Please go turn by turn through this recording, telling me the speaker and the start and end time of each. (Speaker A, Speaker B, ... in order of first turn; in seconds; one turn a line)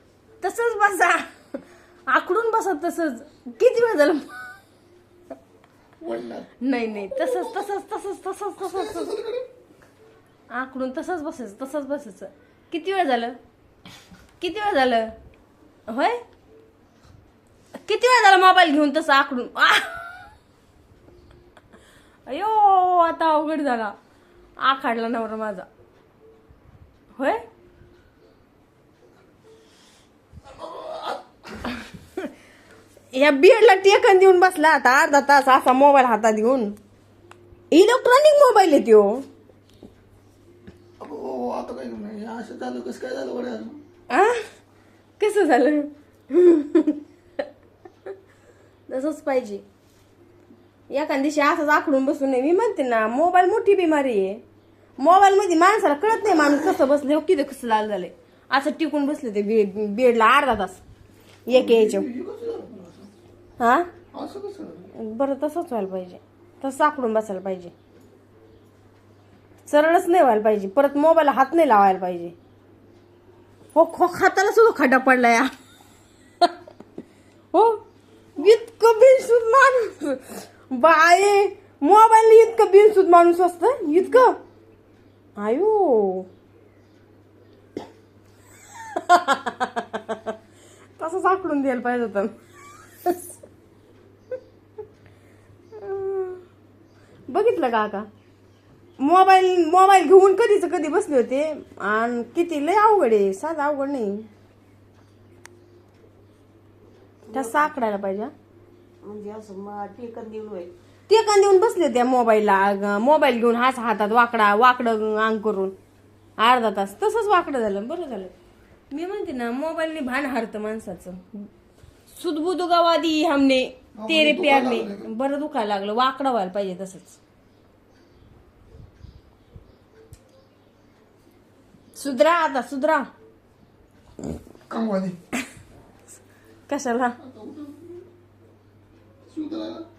Speaker A: 0.4-4.3
Speaker B: 6.0-7.7
Speaker A: 6.6-9.1
Speaker B: 8.6-9.4
Speaker A: 10.5-13.4
Speaker A: 14.4-15.1
Speaker A: 15.9-16.2
Speaker A: 17.8-20.1
Speaker A: 22.3-23.9
Speaker A: 24.6-25.6
Speaker A: 27.1-27.4
Speaker B: 30.5-31.7
Speaker A: 33.1-36.7
Speaker A: 37.7-39.2
Speaker B: 41.0-43.8
Speaker A: 44.1-44.4
Speaker A: 45.2-47.0
Speaker A: 48.9-49.6
Speaker A: 50.9-54.4
Speaker A: 55.0-60.8
Speaker A: 61.5-62.1
Speaker B: 61.5-63.1
Speaker A: 63.6-63.9
Speaker B: 64.1-64.9
Speaker A: 65.0-67.7
Speaker A: 69.7-72.3
Speaker A: 73.7-75.5
Speaker A: 77.5-77.8
Speaker A: 78.3-84.4
Speaker A: 85.4-86.3
Speaker A: 88.9-90.3
Speaker A: 91.0-92.3
Speaker A: 95.8-96.4
Speaker A: 97.3-98.1
Speaker A: 99.0-104.3
Speaker C: 107.3-107.7
Speaker A: 107.3-108.3
Speaker C: 109.0-110.7
Speaker A: 111.1-115.7
Speaker A: 116.4-118.3
Speaker A: 118.9-121.5
Speaker A: 122.1-127.2
Speaker B: 123.9-125.1
Speaker A: 131.9-133.1
Speaker B: 134.7-135.2
Speaker A: 136.7-137.2
Speaker B: 137.2-138.0
Speaker B: 139.2-139.8